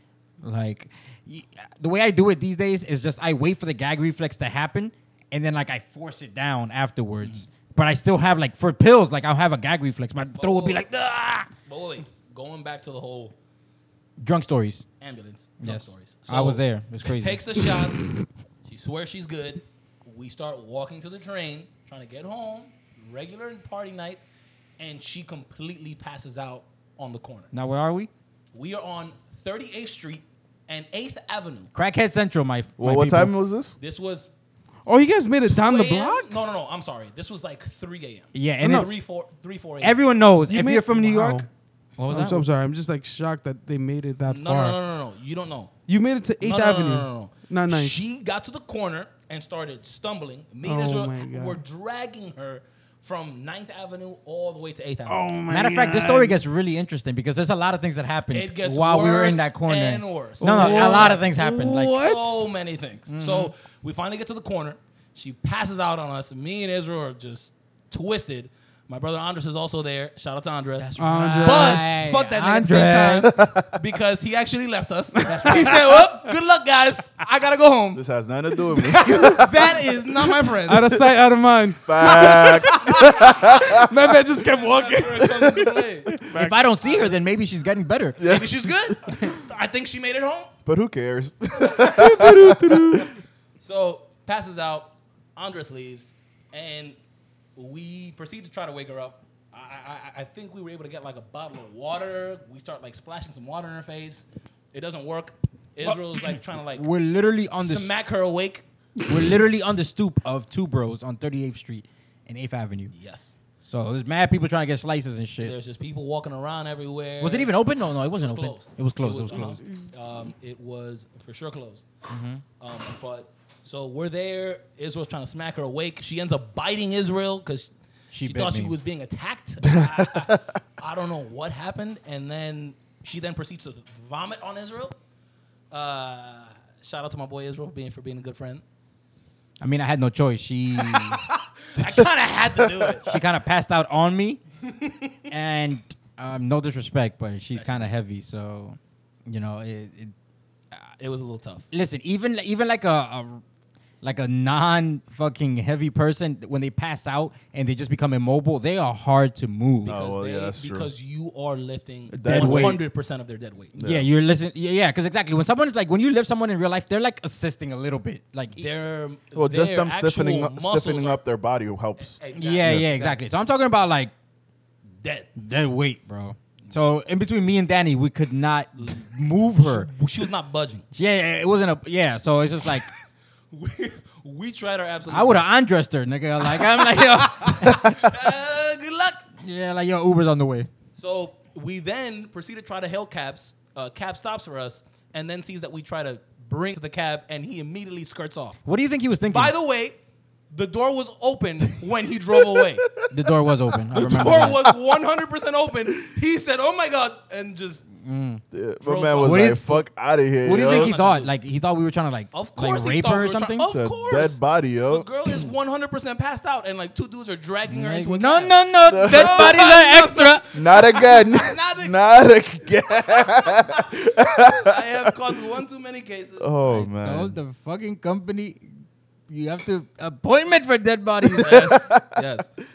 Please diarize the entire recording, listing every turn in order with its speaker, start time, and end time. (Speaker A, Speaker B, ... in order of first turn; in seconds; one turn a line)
Speaker A: 0.4-11.5
Speaker B: 10.4-10.8
Speaker B: 11.6-13.3
Speaker A: 14.2-14.8
Speaker B: 15.0-18.1
Speaker A: 15.6-17.4
Speaker B: 18.6-24.2
Speaker B: 24.8-27.5
Speaker A: 27.5-28.1
Speaker B: 28.5-31.7
Speaker A: 31.7-33.3
Speaker C: 32.8-33.8
Speaker B: 33.8-34.3
Speaker D: 34.9-36.4
Speaker B: 35.5-40.0
Speaker A: 38.3-39.0
Speaker D: 38.6-38.9
Speaker A: 39.8-42.5
Speaker D: 40.5-41.5
Speaker D: 42.1-44.8
Speaker B: 44.3-45.7
Speaker D: 45.9-48.0
Speaker B: 46.4-55.2
Speaker D: 50.6-51.6
Speaker D: 55.0-56.4
Speaker A: 55.5-62.0
Speaker B: 58.3-78.0
Speaker D: 60.4-62.5
Speaker A: 63.1-63.5
Speaker A: 70.8-73.3
Speaker D: 71.0-72.0
Speaker D: 72.5-73.3
Speaker C: 73.3-73.7
Speaker D: 75.2-76.0
Speaker A: 75.2-75.8
Speaker C: 77.9-79.8
Speaker B: 78.9-80.9
Speaker D: 78.9-79.4
Speaker D: 80.5-86.6
Speaker C: 81.8-83.9
Speaker B: 84.5-86.1
Speaker C: 85.3-85.6
Speaker A: 86.3-88.2
Speaker B: 86.8-87.2
Speaker C: 88.2-88.9
Speaker B: 88.2-90.5
Speaker C: 90.7-93.1
Speaker D: 91.8-93.1
Speaker B: 93.6-97.0
Speaker B: 97.5-106.9
Speaker A: 105.8-107.9
Speaker B: 107.6-108.6
Speaker A: 109.1-112.9
Speaker B: 112.9-113.3
Speaker A: 113.6-115.5
Speaker B: 115.4-117.5
Speaker A: 117.2-119.6
Speaker B: 118.2-121.9
Speaker A: 122.1-122.4
Speaker B: 122.6-134.9
Speaker A: 128.1-128.7
Speaker C: 129.7-130.4
Speaker B: 135.7-138.6
Speaker A: 139.6-141.2
Speaker B: 140.8-143.2
Speaker A: 143.1-144.4
Speaker A: 145.3-150.1
Speaker B: 147.5-147.9
Speaker B: 151.0-151.7
Speaker A: 151.7-153.4
Speaker A: 154.0-160.1
Speaker B: 159.8-163.8
Speaker C: 159.8-160.9
Speaker A: 162.1-162.8
Speaker C: 162.1-162.8
Speaker C: 163.8-164.1
Speaker A: 163.8-168.7
Speaker B: 168.6-171.2
Speaker C: 169.3-172.8
Speaker B: 172.0-173.2
Speaker A: 172.3-174.1
Speaker B: 175.0-175.3
Speaker A: 175.3-179.9
Speaker B: 178.8-180.8
Speaker A: 180.9-182.9
Speaker B: 183.5-185.5
Speaker A: 185.1-188.1
Speaker B: 186.5-189.2
Speaker A: 189.4-190.7
Speaker B: 190.9-198.6
Speaker A: 198.6-199.5
Speaker B: 199.3-200.0
Speaker B: 200.5-202.8
Speaker C: 202.5-203.1
Speaker A: 203.1-204.7
Speaker C: 203.9-204.7
Speaker B: 203.9-207.8
Speaker A: 208.0-208.4
Speaker C: 208.5-210.9
Speaker B: 208.8-209.8
Speaker A: 209.2-209.8
Speaker A: 210.4-213.7
Speaker B: 210.4-211.3
Speaker B: 212.3-222.0
Speaker C: 213.6-215.5
Speaker A: 217.7-220.4
Speaker C: 218.8-219.6
Speaker C: 220.5-225.2
Speaker B: 223.2-226.8
Speaker C: 226.4-227.3
Speaker A: 227.0-228.6
Speaker A: 229.3-231.7
Speaker B: 231.4-232.5
Speaker C: 231.4-232.2